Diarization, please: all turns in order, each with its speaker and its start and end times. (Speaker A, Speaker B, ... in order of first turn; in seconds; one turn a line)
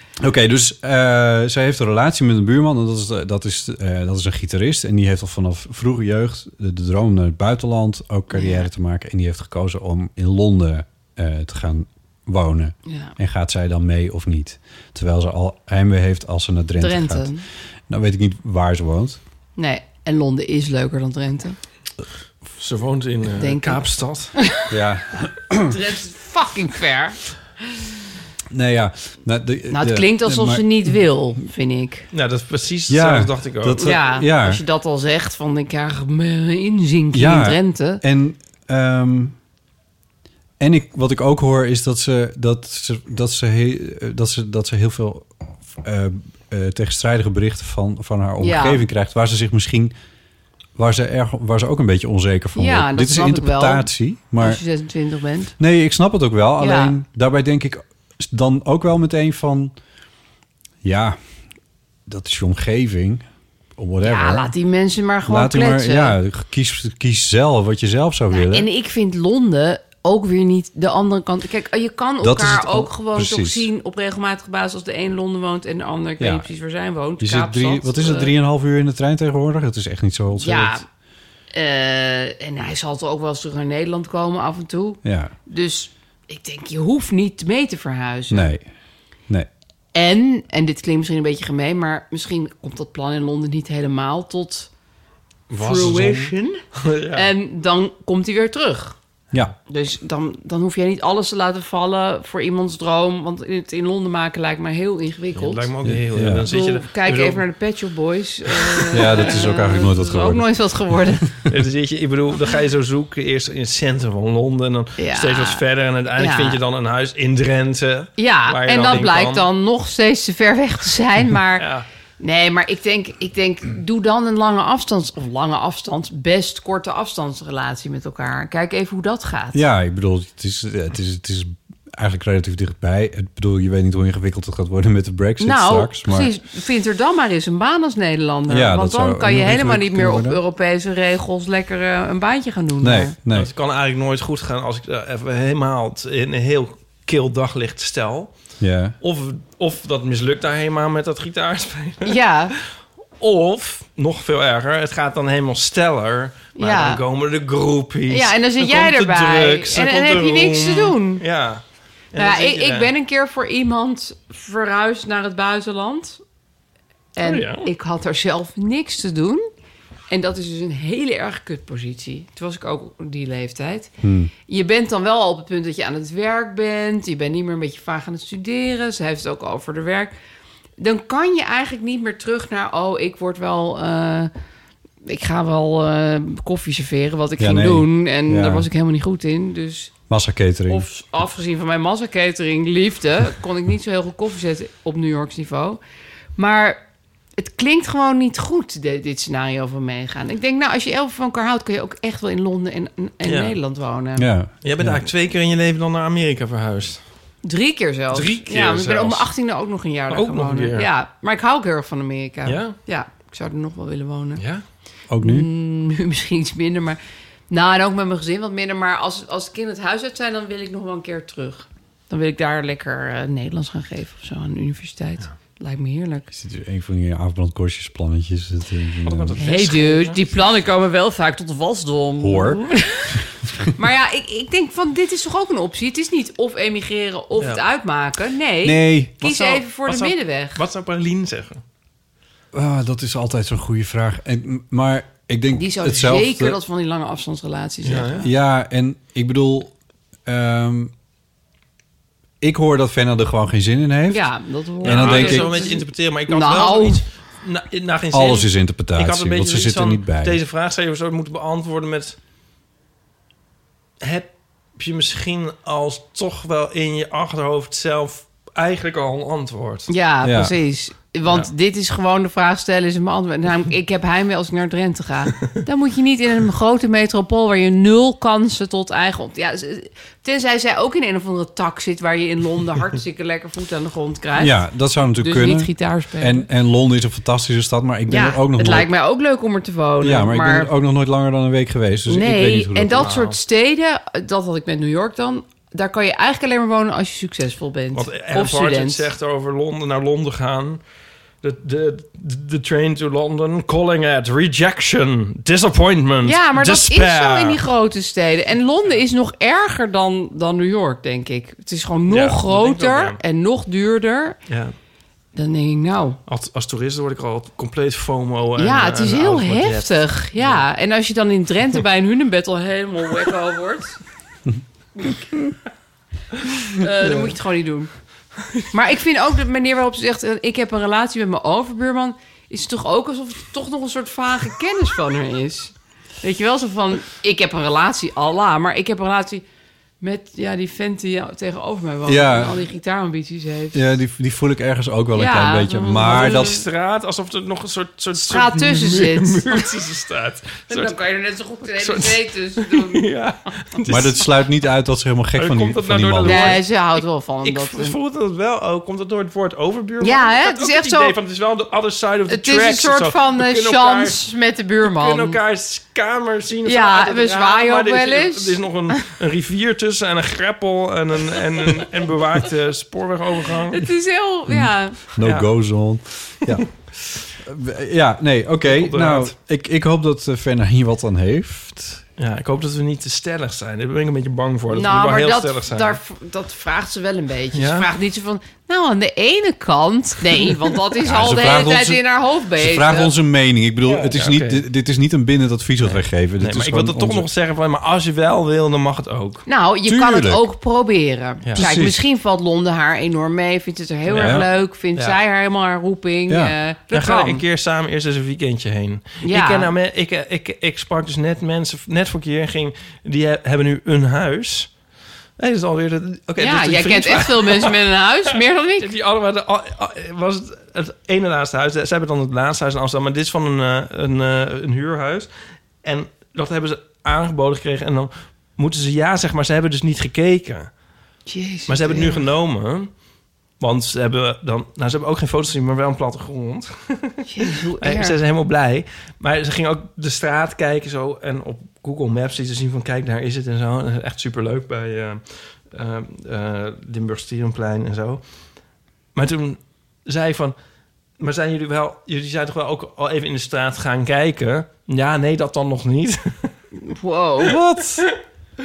Speaker A: 0.2-17.3
Speaker B: 8.3-8.7
Speaker B: 12.8-13.1
Speaker B: 16.8-17.4
Speaker A: 17.9-19.2
Speaker B: 19.6-21.6
Speaker C: 22.5-24.3
Speaker B: 23.4-23.8
Speaker B: 24.4-24.7
Speaker A: 24.7-25.7
Speaker B: 25.7-27.2
Speaker A: 28.5-30.6
Speaker B: 29.7-32.0
Speaker C: 32.1-33.9
Speaker A: 32.9-34.6
Speaker B: 33.8-38.0
Speaker A: 37.1-39.4
Speaker A: 40.6-49.9
Speaker B: 48.4-48.9
Speaker A: 50.8-54.6
Speaker B: 52.5-55.5
Speaker A: 55.6-59.7
Speaker B: 56.6-57.0
Speaker A: 60.8-61.2
Speaker A: 62.0-63.2
Speaker A: 63.8-64.5
Speaker B: 64.0-66.2
Speaker A: 65.2-68.7
Speaker B: 68.3-78.3
Speaker A: 72.2-73.7
Speaker A: 76.2-76.4
Speaker A: 77.2-80.8
Speaker B: 80.3-80.8
Speaker B: 81.5-88.5
Speaker A: 85.0-85.3
Speaker A: 88.3-88.7
Speaker B: 89.9-94.7
Speaker B: 95.5-96.6
Speaker C: 95.6-97.3
Speaker A: 95.8-96.2
Speaker B: 97.1-99.0
Speaker B: 99.7-105.7
Speaker C: 105.3-107.4
Speaker A: 105.8-106.5
Speaker B: 106.5-111.3
Speaker C: 108.5-109.3
Speaker A: 108.9-110.5
Speaker C: 111.5-119.5
Speaker B: 115.0-115.6
Speaker B: 116.2-116.6
Speaker B: 118.2-121.7
Speaker C: 121.6-121.8
Speaker B: 122.2-129.6
Speaker A: 129.5-136.3
Speaker B: 135.4-143.1
Speaker A: 138.5-140.4
Speaker A: 142.8-143.5
Speaker C: 143.3-148.3
Speaker A: 148.6-148.9
Speaker C: 149.0-152.2
Speaker B: 152.0-152.5
Speaker C: 153.2-162.9
Speaker B: 156.6-157.0
Speaker B: 158.1-161.2
Speaker B: 162.2-166.2
Speaker B: 167.1-169.5
Speaker C: 167.2-167.7
Speaker B: 170.1-173.9
Speaker A: 174.0-174.3
Speaker B: 174.5-180.1
Speaker B: 180.8-184.3
Speaker B: 185.0-189.9
Speaker A: 187.4-188.7
Speaker A: 190.1-190.9
Speaker B: 190.7-195.8
Speaker B: 196.4-196.8
Speaker B: 197.4-204.3
Speaker C: 203.2-203.6
Speaker A: 204.2-205.1
Speaker C: 204.6-207.0
Speaker B: 207.4-214.4
Speaker C: 208.1-209.2
Speaker C: 210.1-210.9
Speaker C: 212.4-212.8
Speaker C: 214.4-214.6
Speaker A: 215.1-215.5
Speaker B: 215.2-217.0
Speaker B: 217.5-226.3
Speaker A: 226.3-229.4
Speaker C: 229.0-230.3
Speaker B: 229.4-233.2
Speaker A: 232.2-232.6
Speaker B: 233.8-240.6
Speaker A: 238.6-239.2
Speaker C: 239.2-241.6
Speaker A: 242.5-246.6
Speaker B: 245.5-248.2
Speaker C: 247.8-248.2
Speaker A: 248.2-249.7
Speaker A: 250.2-250.9
Speaker A: 252.4-254.2
Speaker B: 254.1-257.0
Speaker A: 254.8-255.5
Speaker C: 254.8-262.1
Speaker A: 258.1-260.4
Speaker C: 264.0-269.9
Speaker B: 269.9-284.6
Speaker A: 270.2-270.5
Speaker A: 284.4-288.9
Speaker B: 285.1-286.4
Speaker B: 288.1-290.7
Speaker A: 290.0-293.1
Speaker B: 292.1-299.1
Speaker C: 293.0-293.4
Speaker C: 297.9-300.8
Speaker C: 301.4-307.6
Speaker B: 306.2-314.4
Speaker C: 312.1-313.2
Speaker C: 314.5-314.7
Speaker B: 315.3-316.2
Speaker C: 316.3-320.6
Speaker B: 318.6-324.0
Speaker B: 326.7-327.9
Speaker B: 328.7-339.4
Speaker B: 340.0-343.9
Speaker A: 342.1-342.6
Speaker A: 343.7-346.6
Speaker B: 345.1-346.6
Speaker C: 346.0-350.9
Speaker B: 348.1-349.6
Speaker B: 350.7-353.0
Speaker C: 351.7-354.2
Speaker A: 353.9-356.6
Speaker C: 355.4-364.2
Speaker B: 356.2-357.9
Speaker B: 360.0-361.1
Speaker B: 362.3-365.4
Speaker C: 364.8-373.9
Speaker B: 366.6-369.1
Speaker B: 373.7-375.0
Speaker A: 374.5-376.7
Speaker C: 375.2-375.5
Speaker A: 377.4-382.0
Speaker C: 378.6-379.3
Speaker C: 382.2-386.0
Speaker B: 384.7-393.1
Speaker C: 387.5-387.9
Speaker A: 391.0-392.0
Speaker A: 392.6-397.3
Speaker C: 393.8-394.6
Speaker C: 395.8-399.4
Speaker B: 399.4-407.4
Speaker A: 399.8-400.4
Speaker A: 401.6-402.0
Speaker C: 404.1-405.2
Speaker A: 404.2-404.4
Speaker A: 406.3-406.5
Speaker C: 406.9-414.7
Speaker B: 409.2-409.7
Speaker C: 415.4-417.8
Speaker B: 416.4-418.9
Speaker C: 418.8-425.3
Speaker C: 425.8-430.7
Speaker B: 431.3-432.2
Speaker C: 431.7-432.9
Speaker C: 433.6-448.2
Speaker B: 437.3-438.1
Speaker C: 449.1-450.6
Speaker C: 451.2-456.5
Speaker B: 456.8-457.6
Speaker A: 457.4-458.0